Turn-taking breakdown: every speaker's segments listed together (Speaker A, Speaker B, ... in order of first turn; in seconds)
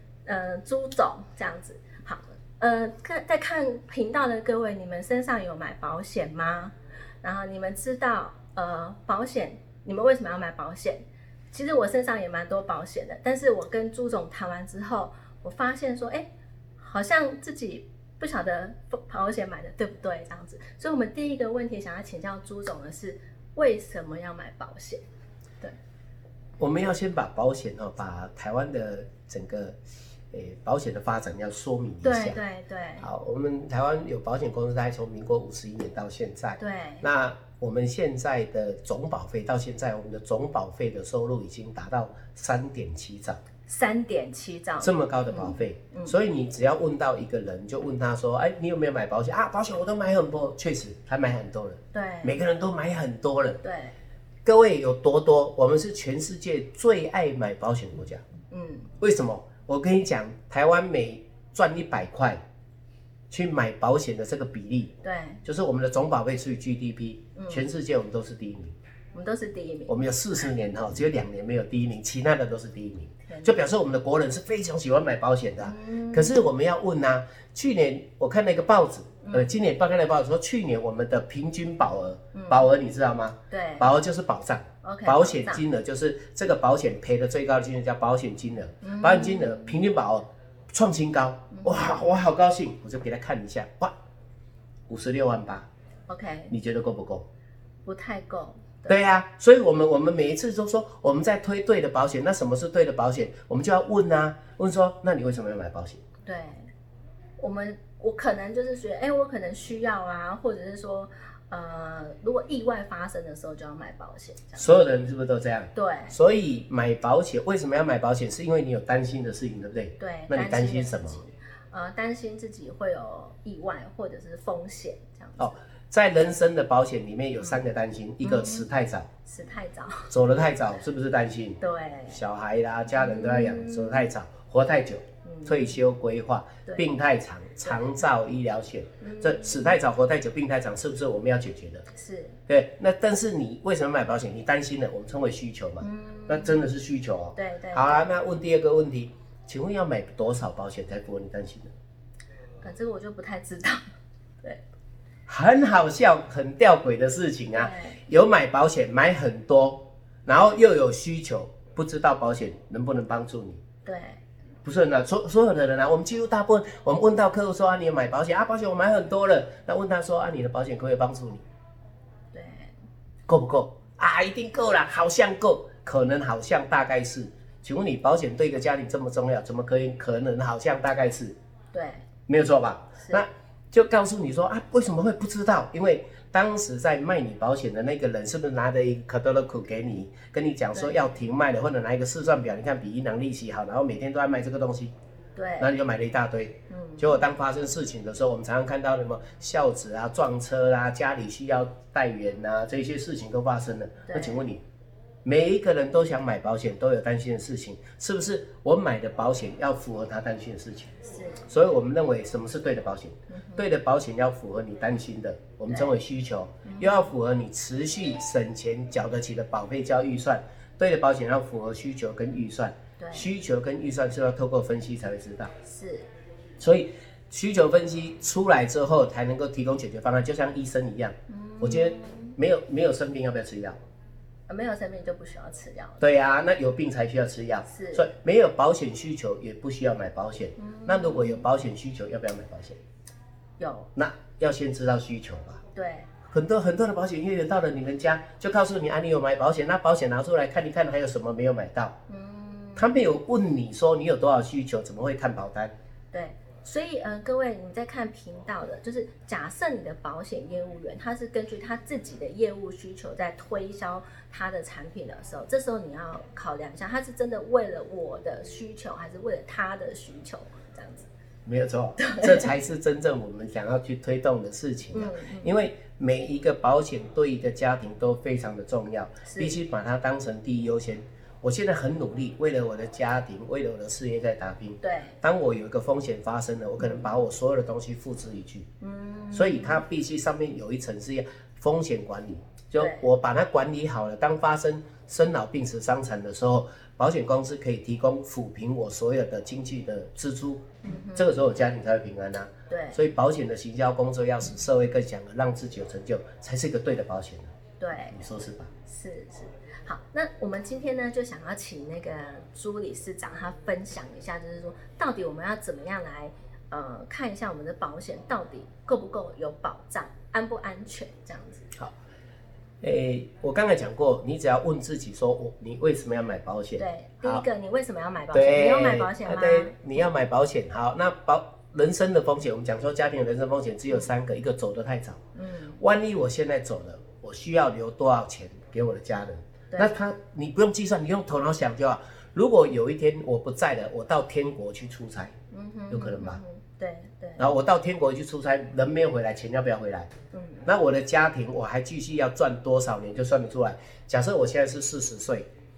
Speaker A: 0.2-11.0, 11.5-16.3, 16.8-25.0, 32.0-33.0, 36.6-37.0, 43.6-46.1, 51.9-52.4, 53.6-53.9, 58.5-58.9, 65.0-65.4, 67.3-67.7, 69.1-70.4, 73.3-73.5, 75.6-76.4, 79.2-79.5, 82.3-82.7, 83.5-83.9, 84.8-85.6, 88.8-89.7, 91.5-92.0, 96.1-96.5, 97.8-99.0, 106.2-106.7, 107.4-114.7, 115.7-116.2, 120.0-125.6, 128.2-128.7, 129.2-130.1, 131.6-132.2, 132.9-134.1, 135.2-135.8, 137.6-138.0, 139.0-139.7, 141.9-142.3, 145.8-146.7, 147.3-148.1, 152.6-153.8, 157.5-158.0, 163.8-164.2, 172.3-172.7, 181.7-182.0, 183.0-183.2, 190.7-191.1, 195.3-195.7, 196.7-197.2, 204.1-204.4, 211.0-211.4, 213.3-213.7, 215.7-215.9, 216.6-217.1, 223.0-223.3, 225.6-226.1, 231.3-232.3, 234.5-236.1, 237.7-238.1, 240.6-241.5, 243.6-243.9, 245.7-246.1, 252.1-253.1, 256.1-271.1, 272.0-272.5, 274.9-275.6, 279.2-279.6, 284.8-285.1, 286.8-287.1, 288.8-289.8, 292.8-293.1, 300.8-301.4, 302.7-303.0, 307.8-308.2, 308.9-321.7, 326.8-329.8, 335.3-335.8, 345.5-347.6, 350.3-350.7
Speaker B: 26.6-29.8, 30.3-32.4, 33.0-43.4, 44.8-53.6, 54.4-58.2, 59.0-62.4, 63.3-64.9, 65.4-68.7, 69.9-93.9, 94.9-95.7, 96.5-97.2, 98.9-106.0, 114.5-121.2, 125.4-129.1, 130.1-141.8, 142.5-151.7, 155.3-163.6, 164.6-171.4, 173.3-181.3, 182.3-194.9, 195.6-204.6, 205.2-210.9, 211.5-225.5, 226.6-233.8, 236.0-242.8, 243.9-245.6, 246.3-251.9, 252.8-255.7, 271.4-288.7, 289.3-307.5, 308.1-308.7, 322.8-327.4, 328.3-335.2, 335.8-345.3, 345.9-346.4, 347.4-350.1, 350.6-355.5